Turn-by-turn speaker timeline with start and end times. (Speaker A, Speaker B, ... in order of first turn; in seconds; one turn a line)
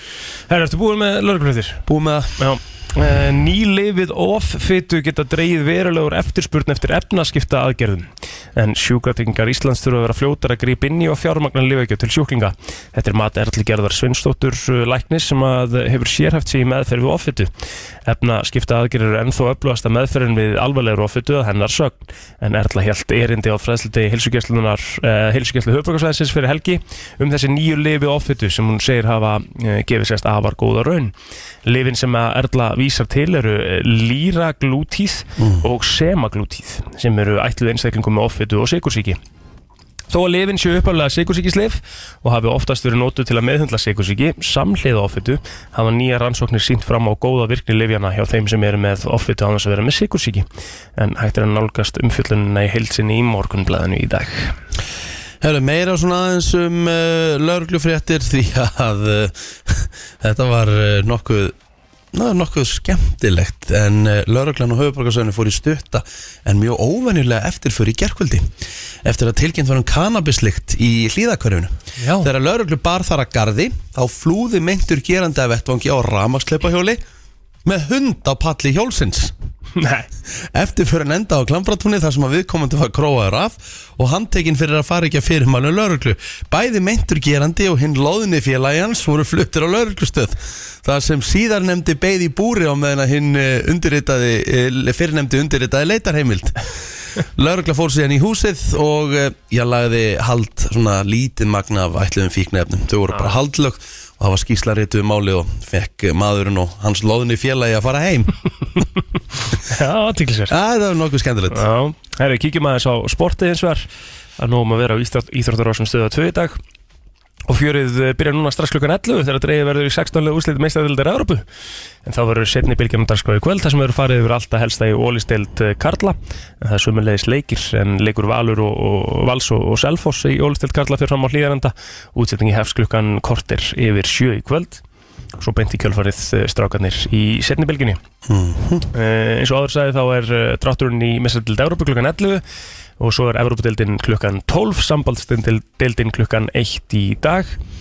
Speaker A: 0.5-1.9
Speaker B: 1.9-2.3
Speaker A: 2.4-17.5
Speaker A: 18.1-31.1
Speaker A: 31.7-39.2
Speaker B: 35.4-35.6
Speaker A: 40.1-54.5
Speaker B: 55.4-61.5
Speaker B: 62.1-68.5
Speaker B: 69.0-77.0
Speaker A: 72.0-72.3
Speaker B: 77.7-79.3
Speaker A: 79.8-80.1
Speaker B: 80.5-96.6
Speaker B: 97.2-108.3
Speaker A: 109.6-110.5
Speaker B: 110.5-111.7
Speaker A: 111.5-113.9
Speaker A: 114.4-116.6
Speaker A: 117.5-121.5
Speaker A: 122.0-134.8
Speaker A: 135.4-138.0
Speaker B: 138.2-138.9
Speaker A: 138.9-142.4
Speaker A: 143.0-147.6